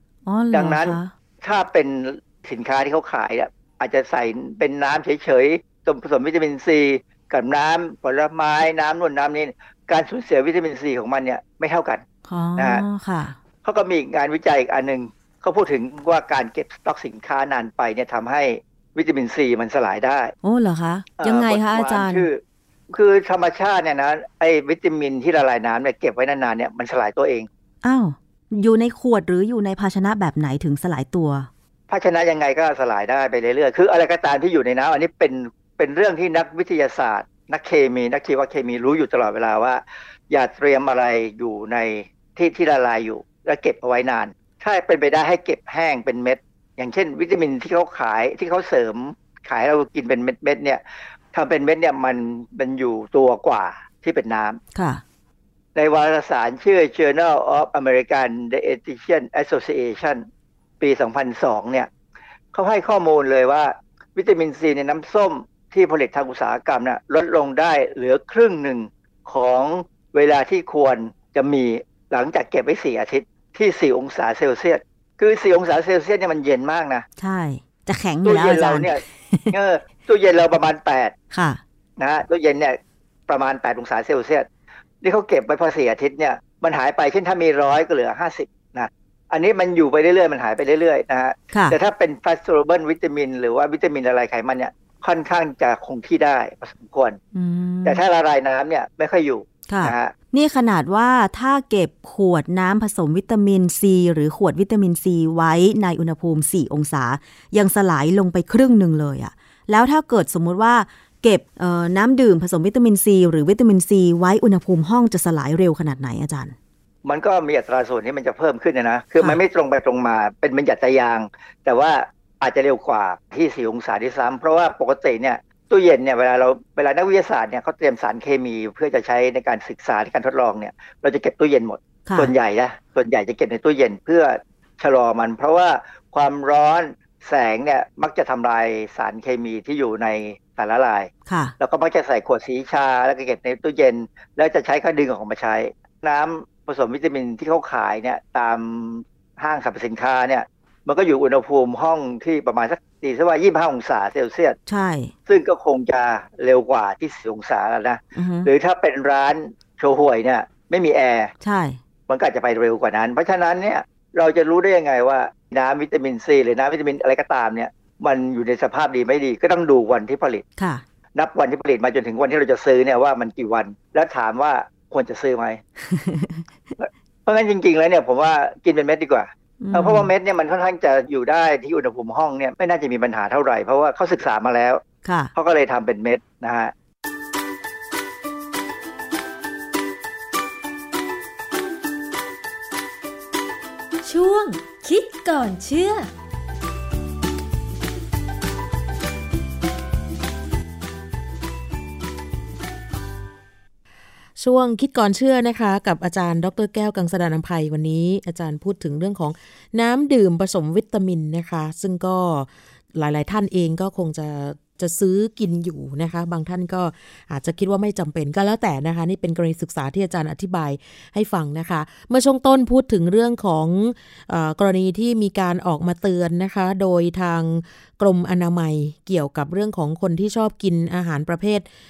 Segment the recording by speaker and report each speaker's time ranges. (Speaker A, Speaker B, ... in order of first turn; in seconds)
Speaker A: 0.2-1.1, 12.2-13.4, 20.4-22.3, 27.8-31.5, 54.7-55.0, 77.2-79.5, 81.3-81.6, 91.5-91.8, 97.3-98.0, 99.7-116.5, 132.0-132.3, 141.2-141.5, 154.7-155.1, 158.1-158.5, 161.4-161.8, 175.8-176.4, 179.6-180.1, 185.0-185.3
Speaker B: 0.5-12.0, 12.6-12.8, 13.6-20.3, 21.2-22.4, 22.9-27.5, 31.9-50.8, 51.3-54.6, 55.7-60.2, 60.8-61.9, 62.5-77.0, 78.2-81.1, 82.0-82.8, 83.3-84.5, 85.0-97.2, 97.8-100.1, 117.0-154.6, 155.3-161.3, 162.1-170.4, 171.2-175.6, 176.8-186.7
Speaker C: 194.0-196.1
Speaker D: 204.4-231.6